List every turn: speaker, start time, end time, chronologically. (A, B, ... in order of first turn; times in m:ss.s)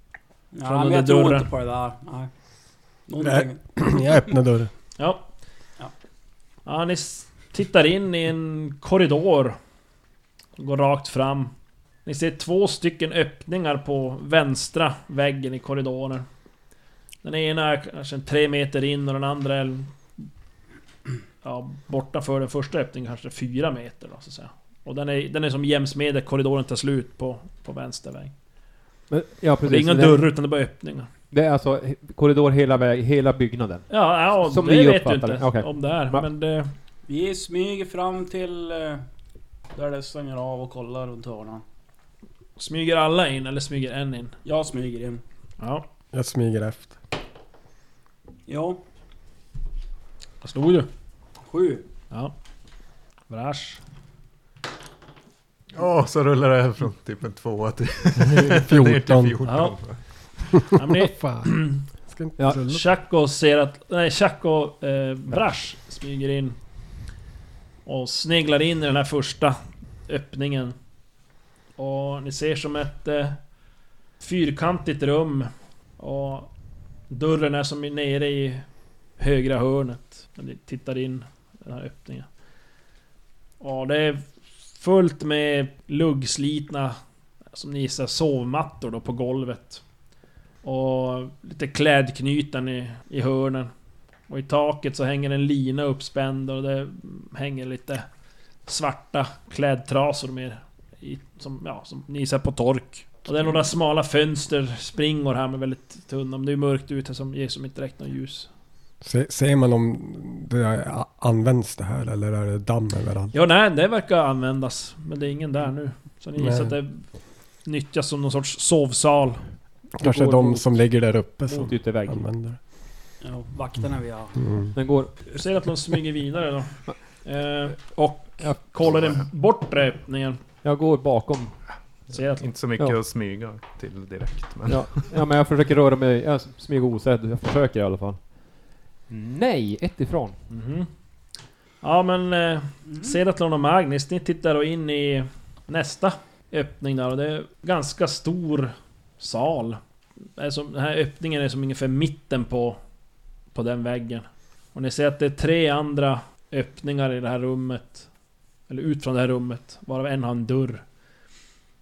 0:00.5-0:02.3 A
0:00.6-0:01.5 B
0:03.1-0:03.6 A
0:03.2-0:04.7 C
0:05.0-0:05.2 B
0:06.7-0:09.6 B
0:10.6-0:11.5 B
0:12.0-0:16.2 B
0:17.2-0:19.9 B
0:21.4-0:28.3 B
0:29.1-0:30.3 D
0:29.6-0:31.1 B
0:31.3-0:36.3 D
0:33.9-0:36.7 B
0:37.1-0:39.0 A
0:39.8-0:41.6 A
0:42.6-0:44.4 B
0:44.4-0:45.2 A
0:45.6-0:45.8 B
0:46.1-0:47.0 C
0:48.5-0:48.8 A
0:50.4-0:50.9 B
0:51.4-0:51.8 A
0:53.3-0:53.8 B
0:55.7-1:00.0 E
0:58.3-0:59.4 C
0:59.4-0:59.8 B
1:00.7-1:01.8 B
1:00.8-1:01.5 C
1:02.1-1:02.8 C
1:02.5-1:06.6 B
1:07.9-1:10.8 B
1:11.8-1:13.4 B
1:14.2-1:16.5 B
1:17.1-1:18.7 B
1:19.2-1:22.3 B
1:23.6-1:27.0 B
1:27.5-1:29.8 B
1:30.6-1:33.7 B
1:34.3-1:38.1 B
1:38.7-1:48.5 B
1:49.0-1:53.3 C
1:53.3-1:57.1 B
1:56.4-1:56.8 C
1:57.6-1:59.4 B
2:00.0-2:02.6 C
2:00.0-2:00.5 B
2:00.0-2:00.6 D
2:01.5-2:02.2 D
2:03.2-2:04.4 A
2:04.4-2:04.7 C
2:04.7-2:05.2 D
2:05.3-2:10.4 B
2:08.4-2:08.6 D
2:10.6-2:11.6 D
2:12.1-2:12.4 B
2:12.1-2:15.1 E
2:14.7-2:18.3 D
2:19.1-2:20.4 D
2:20.5-2:20.9 B
2:21.8-2:32.8 B
2:33.5-2:38.1 B
2:38.7-2:40.8 B